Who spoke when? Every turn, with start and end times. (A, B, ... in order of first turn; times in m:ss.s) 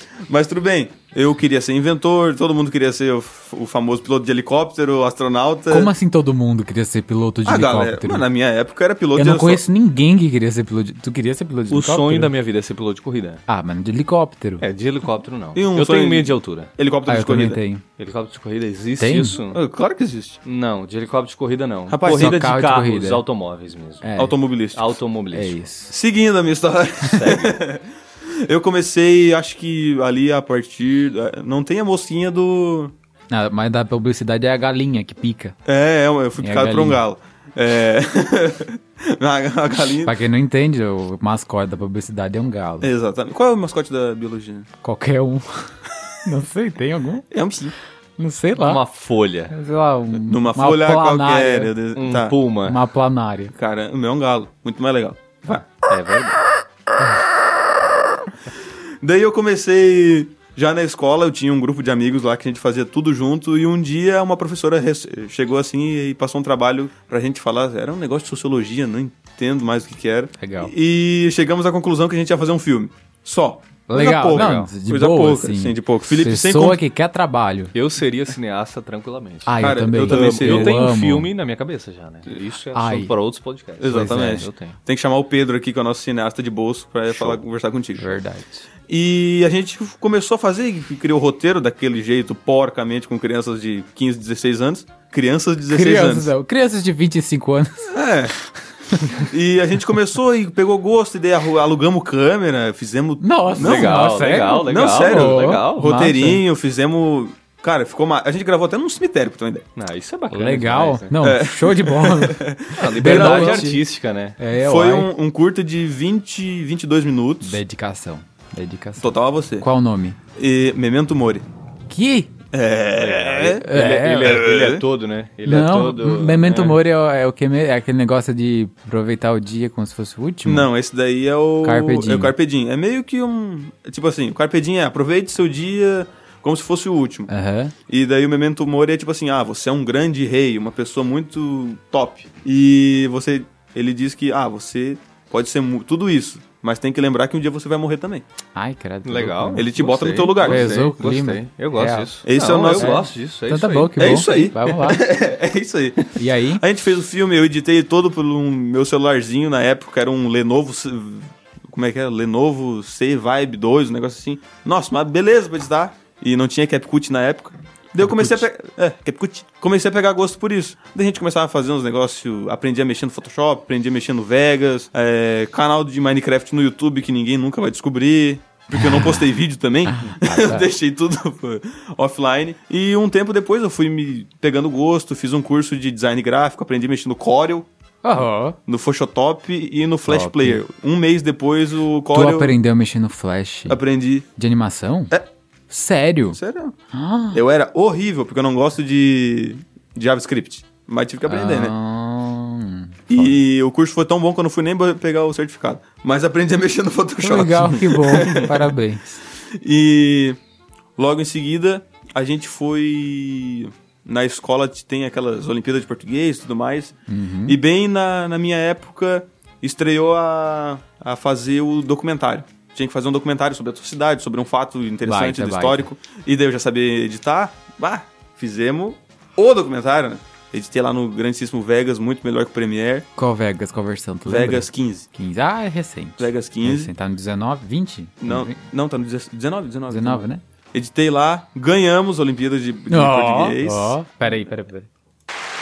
0:00.2-0:05.9 A
0:05.7-0:08.2 B
0:07.4-0:09.6 A
0:09.2-0:12.3 B
0:11.7-0:13.4 C
0:13.5-0:14.6 B
0:14.6-0:16.7 C
0:15.5-0:17.6 A
0:17.1-0:17.8 B
0:18.0-0:19.6 C
0:19.0-0:19.4 B
0:19.5-0:20.4 A
0:20.4-0:24.1 C
0:21.9-0:22.4 A
0:22.0-0:23.2 B
0:24.0-0:24.4 B
0:24.2-0:24.9 A
0:24.7-0:25.6 C
0:25.3-0:25.9 B
0:25.9-0:32.9 A
0:27.0-0:27.6 C
0:33.3-0:35.6 B
0:35.6-0:40.2 A
0:36.4-0:37.0 B
0:40.0-0:42.9 B
0:42.8-0:44.7 A
0:44.8-0:47.2 B
0:47.3-0:47.7 A
0:48.2-0:48.8 B
0:48.6-0:49.5 C
0:49.5-0:51.7 B
0:50.2-0:52.4 A
0:52.0-0:52.8 C
0:52.6-0:53.5 B
0:53.5-0:55.7 A
0:55.9-0:56.4 C
0:59.0-1:16.8 A
1:10.4-1:10.7 B
1:13.9-1:17.7 B
1:14.3-1:14.7 C
1:17.7-1:24.8 C
1:19.4-1:21.3 B
1:19.6-1:20.9 A
1:22.7-1:23.1 B
1:23.8-1:28.2 A
1:23.8-1:24.4 B
1:27.1-1:27.4 C
1:28.0-1:28.6 B
1:28.9-1:36.3 A
1:35.7-1:38.0 B
1:37.9-1:38.3 A
1:38.9-1:39.2 B
1:39.1-1:49.6 A
1:43.2-1:46.4 B
1:43.6-1:45.9 C
1:49.8-1:51.2 C
1:50.3-1:53.8 B
1:51.2-1:53.7 A
1:52.8-1:54.4 C
1:54.4-1:55.1 B
1:54.6-1:57.6 A
1:57.4-2:00.2 B
1:59.0-1:59.7 A
2:00.4-2:01.4 A
2:01.9-2:02.3 B
2:02.5-2:04.8 A
2:02.9-2:06.8 C
2:03.6-2:04.5 B
2:05.4-2:10.7 B
2:10.4-2:17.3 A
2:11.6-2:12.3 B
2:17.3-2:17.7 B
2:17.9-2:28.2 A
2:28.5-2:29.7 B
2:29.0-2:34.4 C
2:29.5-2:30.9 A
2:30.4-2:35.1 B
2:32.2-2:33.1 A
2:34.0-3:07.7 A
2:36.2-2:36.6 B
2:58.7-2:59.2 B
3:00.0-3:00.7 B
3:08.0-3:08.6 B
3:08.7-3:12.5 A
3:10.1-3:10.6 B
3:12.1-3:13.8 B
3:13.7-3:14.2 A
3:14.4-3:15.1 B
3:15.7-3:16.4 B
3:16.3-3:16.7 A
3:16.9-3:17.4 B
3:17.3-3:21.7 A
3:21.3-3:23.4 B
3:23.1-3:28.7 A
3:27.2-3:29.2 B
3:28.2-3:28.5 C
3:29.3-3:30.4 A
3:31.0-3:36.9 A
3:37.1-3:37.6 B
3:37.4-3:53.0 A
3:45.0-3:45.9 B
3:53.2-3:58.6 B
3:54.2-3:55.1 A
3:56.2-3:56.9 A
3:58.2-4:04.0 A
3:59.9-4:00.4 B
4:02.9-4:04.9 B